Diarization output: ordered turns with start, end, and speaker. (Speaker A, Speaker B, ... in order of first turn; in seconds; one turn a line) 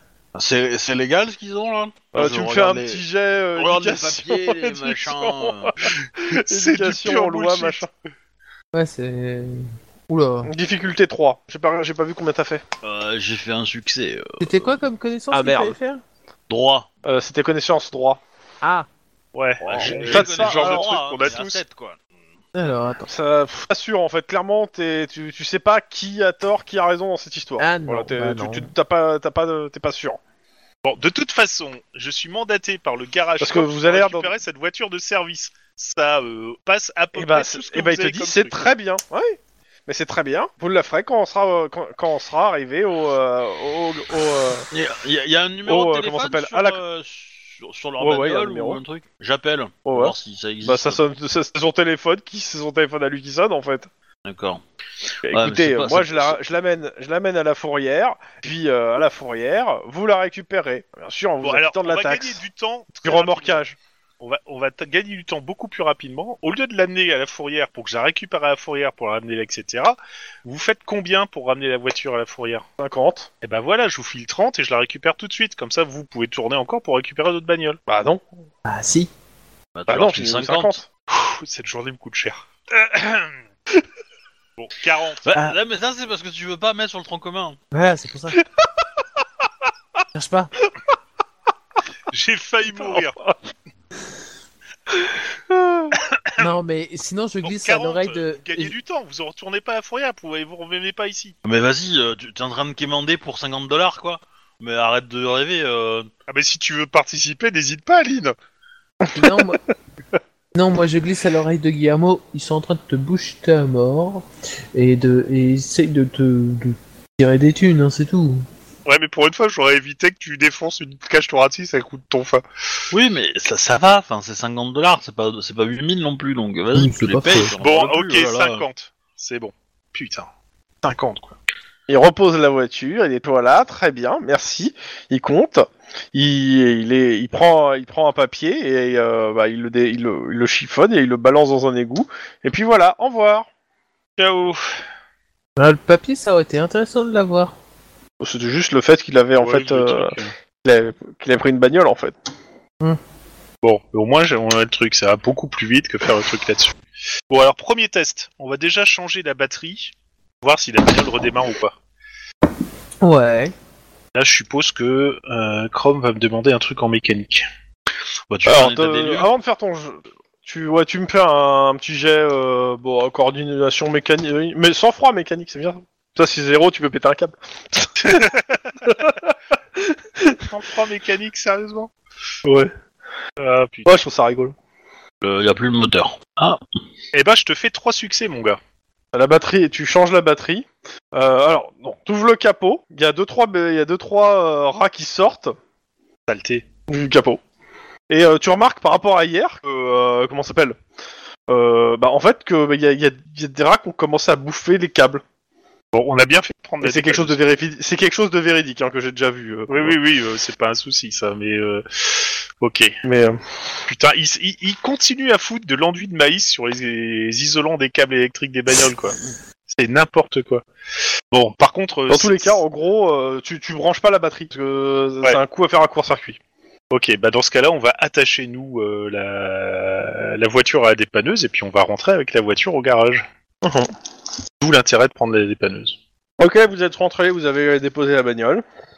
Speaker A: 0.3-3.0
Speaker B: 2.1-7.9
Speaker A: 3.5-5.9
Speaker C: 6.3-7.8
Speaker D: 8.7-10.5
Speaker B: 10.4-12.6
Speaker A: 12.8-14.8
Speaker D: 14.4-16.0
Speaker B: 15.3-15.8
Speaker A: 16.5-16.9
Speaker B: 17.1-18.2
Speaker D: 18.6-18.9
Speaker C: 19.3-21.6
Speaker A: 19.6-22.0
Speaker B: 19.7-20.9
Speaker D: 22.6-23.1
Speaker B: 23.1-30.2
Speaker D: 27.6-28.7
Speaker C: 30.8-38.5
Speaker B: 33.4-34.3
Speaker B: 37.1-44.7
Speaker A: 44.7-51.0
Speaker B: 45.6-46.8
Speaker B: 48.0-48.8
Speaker B: 49.9-53.9
Speaker A: 54.3-54.6
Speaker A: 55.2-56.4
Speaker B: 55.3-62.4
Speaker C: 61.4-63.6
Speaker B: 63.0-63.8
Speaker C: 64.2-72.6
Speaker B: 72.8-73.3
Speaker C: 73.4-77.8
Speaker B: 77.9-78.2
Speaker D: 78.7-79.1
Speaker A: 79.7-80.8
Speaker B: 79.9-80.9
Speaker C: 81.1-83.4
Speaker C: 84.6-85.3
Speaker A: 85.3-87.6
Speaker D: 87.7-88.4
Speaker D: 90.1-90.5
Speaker C: 92.1-93.2
Speaker B: 92.7-93.1
Speaker B: 95.5-96.0
Speaker C: 96.0-96.6
Speaker D: 96.4-98.7
Speaker C: 97.4-101.3
Speaker A: 101.4-106.1
Speaker C: 106.3-108.3
Speaker B: 109.0-109.4
Speaker D: 109.1-109.6
Speaker D: 110.5-118.5
Speaker C: 118.9-122.5
Speaker A: 122.9-128.6
Speaker D: 126.7-127.5
Speaker C: 127.6-130.3
Speaker C: 130.8-131.4
Speaker B: 131.9-143.5
Speaker C: 144.2-144.7
Speaker D: 145.6-147.5
Speaker B: 148.2-152.1
Speaker C: 149.4-150.3
Speaker C: 153.6-156.8
Speaker C: 157.3-161.7
Speaker D: 163.0-163.5
Speaker C: 164.1-167.4
Speaker A: 168.3-169.3
Speaker B: 168.4-178.3
Speaker C: 178.0-178.7
Speaker B: 178.8-179.2
Speaker B: 179.8-180.4
Speaker C: 180.5-181.9
Speaker B: 182.4-182.7
Speaker C: 183.4-183.9
Speaker B: 183.8-184.6
Speaker A: 185.2-186.6
Speaker C: 187.1-188.6
Speaker B: 189.1-195.6
Speaker C: 196.3-196.6
Speaker B: 196.9-197.4
Speaker B: 198.1-200.8
Speaker B: 201.5-205.2
Speaker C: 205.9-207.4
Speaker B: 206.8-209.9
Speaker C: 209.7-213.0
Speaker B: 213.0-213.4
Speaker C: 213.9-220.6
Speaker C: 221.3-222.6
Speaker B: 222.1-226.4
Speaker C: 226.9-233.3
Speaker B: 233.6-233.9
Speaker C: 234.6-236.0
Speaker B: 236.4-238.6